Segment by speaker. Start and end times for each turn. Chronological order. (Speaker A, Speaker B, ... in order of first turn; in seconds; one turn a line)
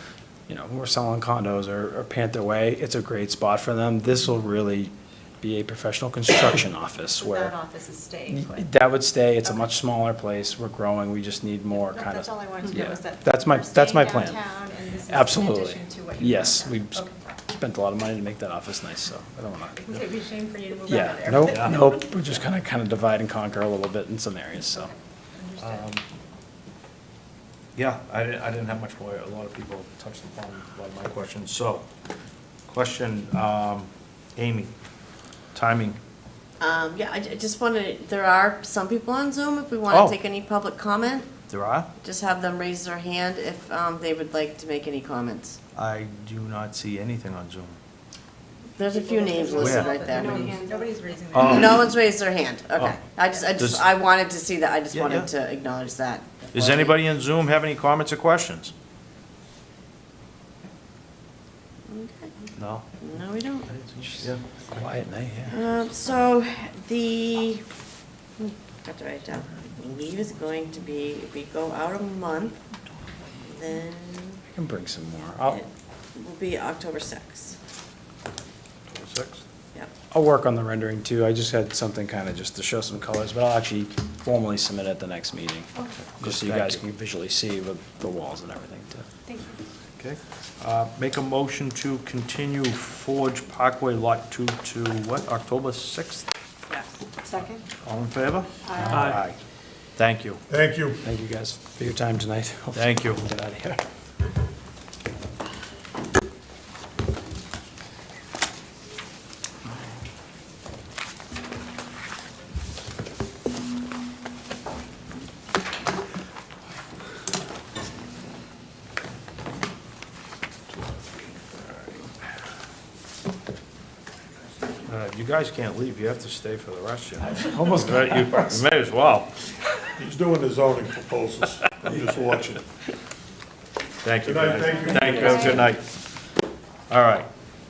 Speaker A: 0.5-7.5
Speaker B: 7.2-8.7
Speaker A: 8.3-14.4
Speaker B: 11.7-17.2
Speaker A: 15.1-19.8
Speaker B: 19.8-22.0
Speaker A: 20.9-24.9
Speaker C: 21.4-22.4
Speaker B: 24.8-25.9
Speaker C: 25.6-26.0
Speaker C: 27.8-31.9
Speaker C: 32.7-34.7
Speaker C: 35.5-36.0
Speaker D: 36.6-41.3
Speaker C: 39.9-40.1
Speaker C: 41.5-41.9
Speaker D: 42.0-45.6
Speaker C: 45.7-47.8
Speaker D: 48.8-50.6
Speaker E: 48.8-50.9
Speaker C: 49.6-50.4
Speaker B: 49.8-51.6
Speaker C: 51.3-52.0
Speaker D: 51.4-57.0
Speaker C: 52.8-53.9
Speaker C: 54.9-55.3
Speaker C: 56.5-58.7
Speaker D: 61.9-62.3
Speaker C: 62.5-62.9
Speaker D: 63.0-64.3
Speaker C: 63.7-64.4
Speaker A: 64.7-65.6
Speaker D: 65.5-67.6
Speaker D: 68.4-72.6
Speaker D: 73.4-74.4
Speaker A: 74.5-75.6
Speaker D: 75.5-77.5
Speaker C: 78.9-79.4
Speaker A: 80.1-89.0
Speaker C: 86.2-86.8
Speaker E: 89.2-89.6
Speaker C: 90.0-96.3
Speaker E: 97.2-97.6
Speaker C: 97.8-99.4
Speaker E: 98.6-99.2
Speaker A: 98.8-99.2
Speaker C: 100.0-100.4
Speaker F: 100.5-101.0
Speaker A: 101.0-103.8
Speaker C: 102.7-103.3
Speaker C: 124.8-129.6
Speaker A: 127.3-128.4
Speaker F: 130.0-132.6
Speaker C: 134.0-135.8
Speaker F: 134.2-135.7
Speaker C: 136.9-137.3